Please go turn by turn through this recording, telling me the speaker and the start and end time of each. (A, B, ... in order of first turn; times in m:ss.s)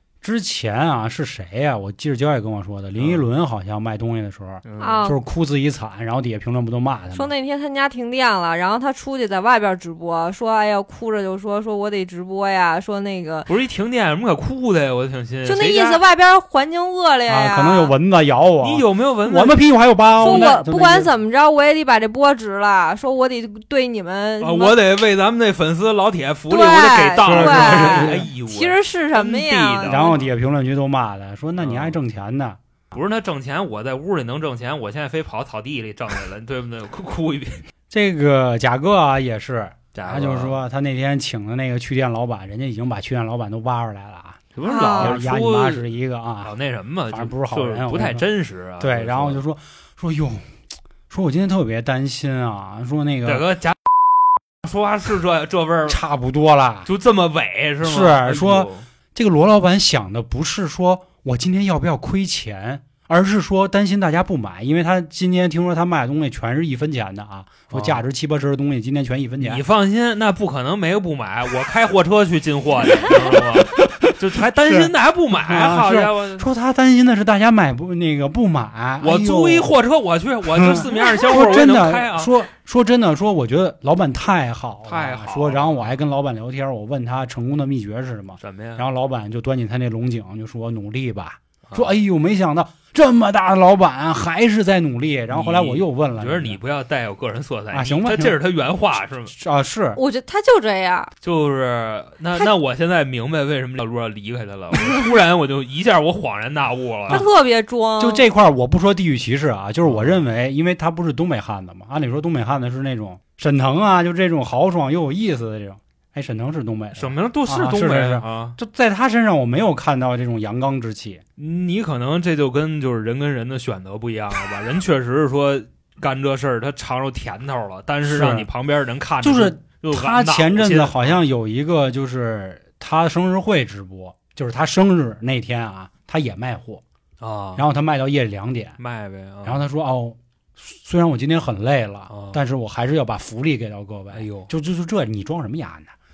0:00.2-0:07.3 A
0:03.0-0:03.2 B
0:04.6-0:05.1 B
0:04.8-0:05.2 C
0:07.1-0:13.5 C
0:13.5-0:16.0 B
0:15.4-0:17.9 C
0:17.3-0:21.1 A
0:18.6-0:19.6 B
0:20.2-0:20.6 B
0:20.2-0:24.8 C
0:24.4-0:30.2 B
0:26.5-0:30.2 C
0:27.2-0:28.3 A
0:29.9-0:32.6 A
0:31.6-0:32.0 B
0:32.9-0:37.6 B
0:37.9-0:46.5 A
0:39.9-0:40.6 B
0:44.5-0:45.9 B
0:44.6-0:45.2 C
0:46.4-0:49.4 B
0:47.1-0:48.2 A
0:48.8-0:50.5 A
0:51.1-0:53.4 A
0:53.2-0:53.8 B
0:54.6-0:56.0 B
0:55.9-0:56.9 A
0:56.9-0:58.9 B
0:57.8-1:09.6 A
1:07.7-1:08.0 B
1:09.4-1:16.5 B
1:13.1-1:19.7 A
1:19.0-1:22.3 B
1:20.5-1:36.6 A
1:24.8-1:25.9 B
1:28.4-1:28.8 B
1:31.7-1:31.9 B
1:35.3-1:39.3 B
1:37.7-1:38.4 A
1:39.3-1:40.0 A
1:40.0-1:41.1 C
1:41.2-1:47.2 B
1:47.1-1:48.2 C
1:48.0-2:01.2 A
1:49.8-1:50.2 B
1:57.0-1:58.6 B
2:01.4-2:11.2 B
2:08.0-2:08.5 A
2:09.2-2:16.8 A
2:17.2-2:17.6 B
2:17.6-2:18.8 A
2:18.8-2:19.6 B
2:19.4-2:25.9 A
2:22.1-2:22.4 B
2:24.1-2:24.5 B